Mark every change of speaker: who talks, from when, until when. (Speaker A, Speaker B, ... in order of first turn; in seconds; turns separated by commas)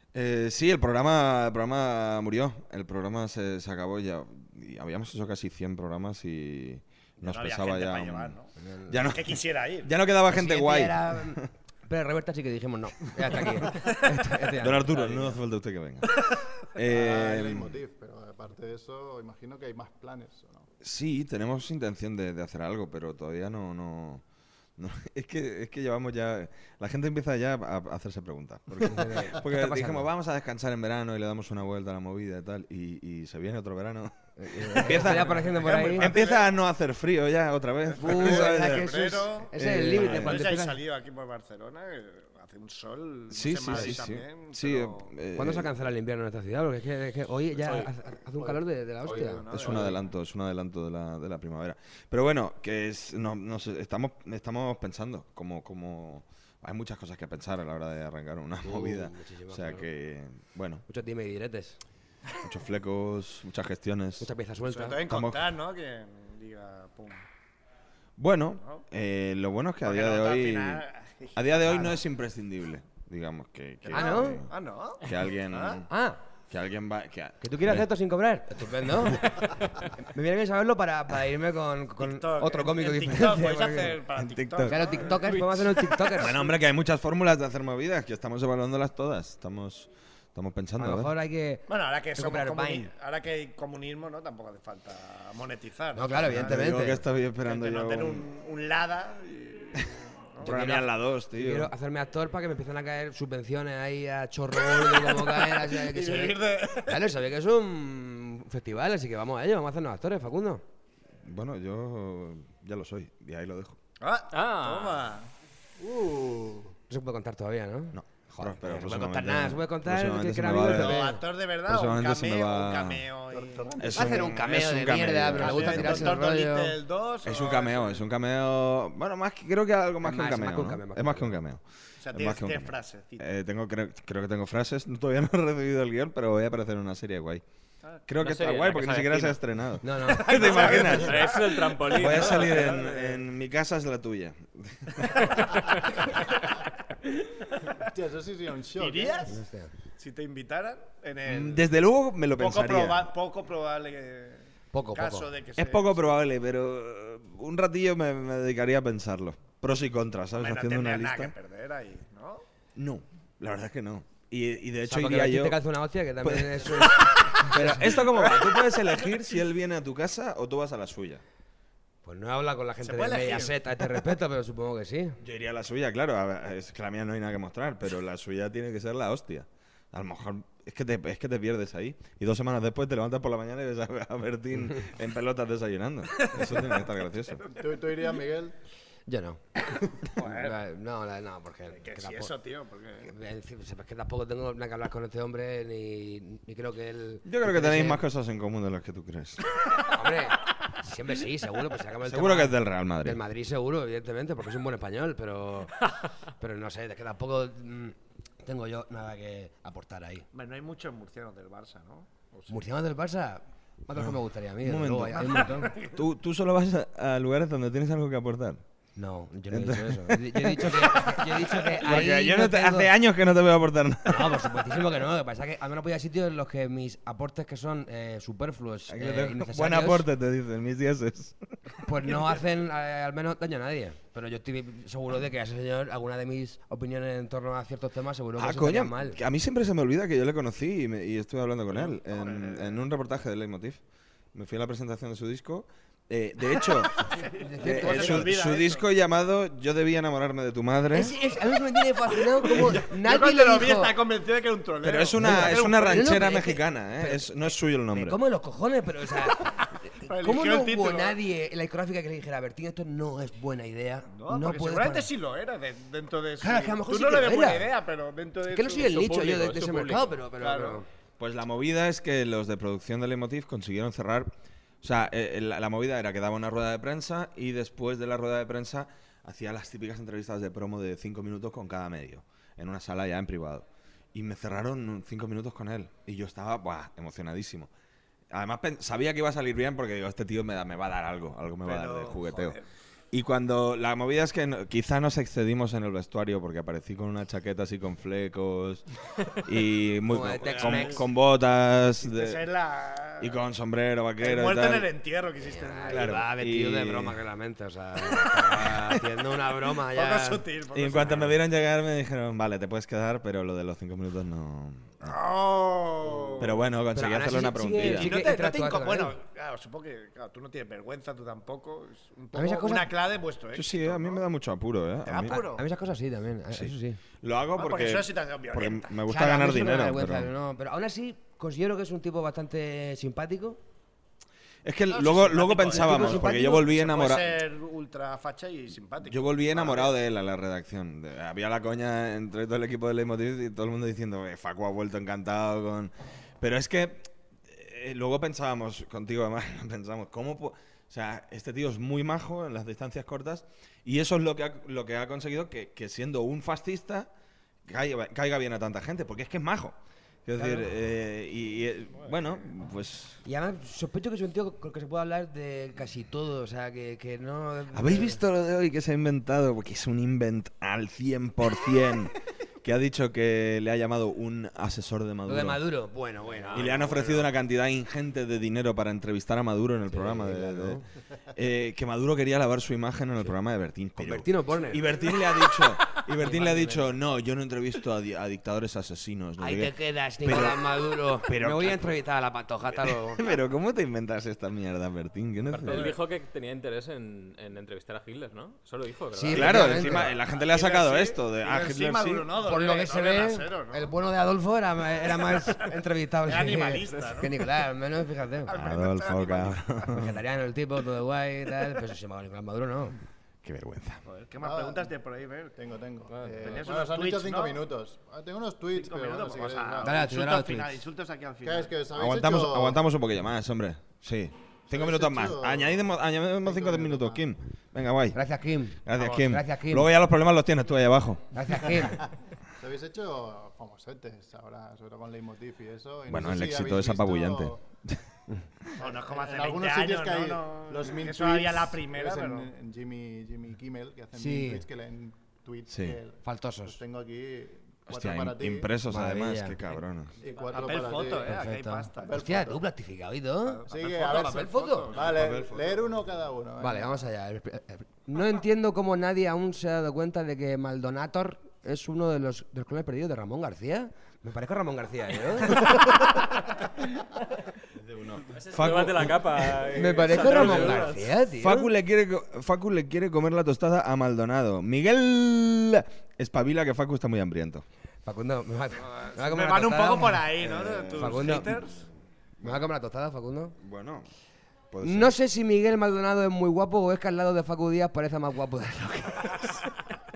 Speaker A: 0.1-8.4, Speaker B: 7.2-9.9, Speaker C: 8.6-9.0, Speaker A: 8.9-11.5, Speaker C: 10.3-15.3, Speaker A: 14.6-17.8, Speaker D: 16.9-20.7, Speaker A: 20.8-24.2, Speaker A: 24.8-40.4, Speaker C: 28.9-30.1, Speaker C: 34.4-36.1, Speaker B: 34.9-36.5, Speaker B: 38.0-45.1, Speaker C: 38.0-40.8, Speaker A: 43.3-45.7, Speaker C: 43.7-44.0, Speaker C: 45.4-49.9, Speaker B: 49.0-50.0, Speaker A: 49.5-60.8, Speaker C: 58.6-59.9, Speaker C: 60.9-61.8, Speaker A: 62.4-64.3, Speaker C: 64.2-65.0, Speaker B: 64.7-67.3, Speaker A: 65.0-65.5, Speaker A: 68.2-75.9, Speaker B: 69.8-71.8, Speaker C: 71.7-71.9, Speaker B: 73.8-75.8, Speaker C: 73.9-74.4, Speaker C: 75.9-76.2, Speaker A: 76.5-77.9, Speaker C: 77.4-84.0, Speaker B: 82.0-85.4, Speaker A: 84.2-85.5, Speaker C: 84.7-86.5, Speaker A: 86.1-91.1, Speaker C: 90.8-92.9, Speaker B: 91.7-96.8, Speaker C: 96.0-97.0, Speaker A: 96.2-98.3, Speaker B: 97.4-100.6, Speaker A: 100.4-101.7, Speaker C: 100.4-110.6, Speaker B: 104.7-107.0, Speaker A: 111.2-113.8, Speaker B: 114.0-115.3, Speaker E: 114.3-115.1, Speaker D: 115.8-116.7, Speaker C: 116.9-121.2, Speaker A: 117.9-123.1, Speaker B: 120.6-123.7, Speaker D: 123.3-124.3, Speaker A: 123.8-126.2, Speaker C: 123.9-126.8, Speaker B: 125.4-128.0, Speaker A: 127.2-137.4, Speaker C: 130.0-131.4, Speaker B: 132.0-133.3, Speaker A: 138.1-145.2, Speaker E: 138.2-139.4, Speaker C: 139.8-140.5, Speaker B: 140.2-143.0, Speaker E: 140.4-143.1, Speaker E: 145.2-145.9, Speaker D: 147.8-149.3, Speaker B: 148.8-149.3, Speaker C: 149.3-149.7, Speaker B: 150.0-151.7, Speaker A: 151.3-153.1, Speaker B: 152.4-156.2, Speaker C: 154.7-155.3, Speaker A: 155.6-161.3, Speaker B: 160.3-162.4, Speaker A: 162.8-165.6, Speaker C: 164.8-167.9, Speaker A: 166.2-171.2, Speaker B: 168.1-169.1, Speaker C: 172.0-175.2, Speaker B: 172.8-173.6, Speaker A: 175.2-187.4, Speaker B: 186.2-186.8, Speaker D: 187.5-188.6, Speaker C: 189.1-189.4, Speaker C: 190.2-192.3, Speaker B: 190.2-190.6, Speaker B: 191.7-193.1, Speaker C: 193.0-198.0, Speaker A: 197.2-199.4, Speaker C: 199.9-205.8, Speaker A: 202.0-203.2, Speaker C: 206.4-210.3, Speaker B: 210.3-212.6, Speaker C: 212.5-215.8, Speaker A: 214.0-218.6, Speaker B: 215.4-215.9, Speaker C: 219.0-222.9, Speaker A: 219.5-224.5, Speaker C: 224.1-230.1, Speaker A: 228.9-231.4, Speaker C: 231.8-239.2, Speaker A: 238.4-243.8, Speaker B: 241.7-242.8, Speaker A: 244.3-247.1, Speaker B: 247.0-248.8, Speaker C: 247.4-248.4, Speaker A: 247.6-251.2, Speaker C: 250.9-254.0, Speaker B: 252.4-256.4, Speaker A: 254.8-258.2, Speaker C: 255.2-257.3, Speaker C: 257.9-259.4, Speaker B: 259.4-261.2, Speaker C: 260.0-265.1, Speaker B: 264.1-269.1, Speaker C: 266.4-267.7, Speaker C: 268.5-270.9, Speaker E: 268.9-270.2, Speaker B: 270.4-270.8, Speaker A: 271.2-274.3, Speaker A: 274.8-287.7, Speaker A: 288.3-292.6, Speaker B: 291.6-292.7, Speaker A: 293.1-298.9, Speaker A: 299.4-302.4, Speaker C: 300.1-301.0, Speaker B: 300.4-301.1, Speaker B: 302.0-303.4, Speaker A: 303.2-304.9, Speaker B: 304.2-306.2, Speaker C: 305.4-310.4, Speaker A: 305.9-307.2, Speaker A: 308.3-309.0, Speaker B: 309.9-311.4, Speaker A: 310.7-315.1, Speaker B: 315.0-316.6, Speaker A: 316.4-318.2, Speaker C: 316.9-319.1, Speaker B: 317.8-324.2, Speaker C: 322.3-322.9, Speaker A: 323.5-325.4, Speaker B: 325.0-325.7, Speaker C: 325.3-327.0, Speaker A: 326.5-330.3, Speaker B: 327.6-329.0, Speaker C: 329.1-333.6, Speaker A: 334.6-337.4, Speaker B: 334.9-340.0, Speaker C: 335.7-336.6, Speaker A: 339.0-357.1, Speaker A: 357.7-363.2, Speaker C: 360.4-360.7, Speaker C: 363.2-368.2, Speaker A: 367.7-375.6, Speaker C: 375.3-376.9, Speaker E: 376.5-377.3, Speaker A: 376.5-380.8, Speaker C: 379.9-380.8, Speaker A: 381.4-392.0, Speaker C: 384.0-384.9, Speaker C: 386.2-386.9, Speaker C: 389.4-393.2, Speaker A: 392.8-395.9, Speaker E: 395.5-400.1, Speaker C: 399.1-400.1, Speaker A: 399.3-402.3, Speaker B: 400.3-403.9, Speaker C: 402.4-408.5, Speaker B: 405.1-407.5, Speaker B: 408.5-409.7, Speaker A: 408.5-410.1, Speaker C: 409.9-413.0, Speaker A: 413.4-414.0, Speaker B: 414.1-415.6, Speaker D: 414.4-414.9, Speaker D: 415.6-420.0, Speaker E: 416.1-416.7, Speaker B: 416.4-417.7, Speaker B: 418.7-421.8, Speaker C: 419.8-420.8, Speaker D: 421.4-422.8, Speaker A: 421.9-428.2, Speaker D: 424.7-425.8, Speaker D: 426.4-427.2, Speaker C: 428.1-429.9, Speaker A: 428.9-431.4, Speaker C: 431.3-432.0, Speaker D: 432.6-437.6, Speaker A: 436.1-438.0, Speaker B: 438.8-442.5, Speaker D: 438.8-448.7, Speaker C: 444.1-444.7, Speaker A: 445.7-446.0, Speaker C: 446.2-446.8, Speaker A: 447.9-450.1, Speaker C: 448.9-449.6, Speaker D: 450.2-452.6, Speaker B: 450.3-452.3, Speaker C: 451.2-453.6, Speaker B: 453.5-455.5, Speaker D: 453.7-457.0, Speaker C: 454.2-454.9, Speaker A: 455.0-455.7, Speaker C: 456.6-465.7, Speaker A: 467.8-469.6, Speaker E: 468.3-471.1, Speaker C: 469.7-471.7, Speaker A: 470.3-470.7, Speaker A: 471.3-477.6, Speaker C: 478.1-480.3, Speaker B: 478.8-481.8, Speaker A: 480.4-481.8, Speaker C: 480.9-481.6, Speaker A: 482.4-482.7, Speaker C: 482.4-483.5, Speaker A: 483.6-484.1, Speaker A: 484.7-485.1, Speaker C: 484.8-489.5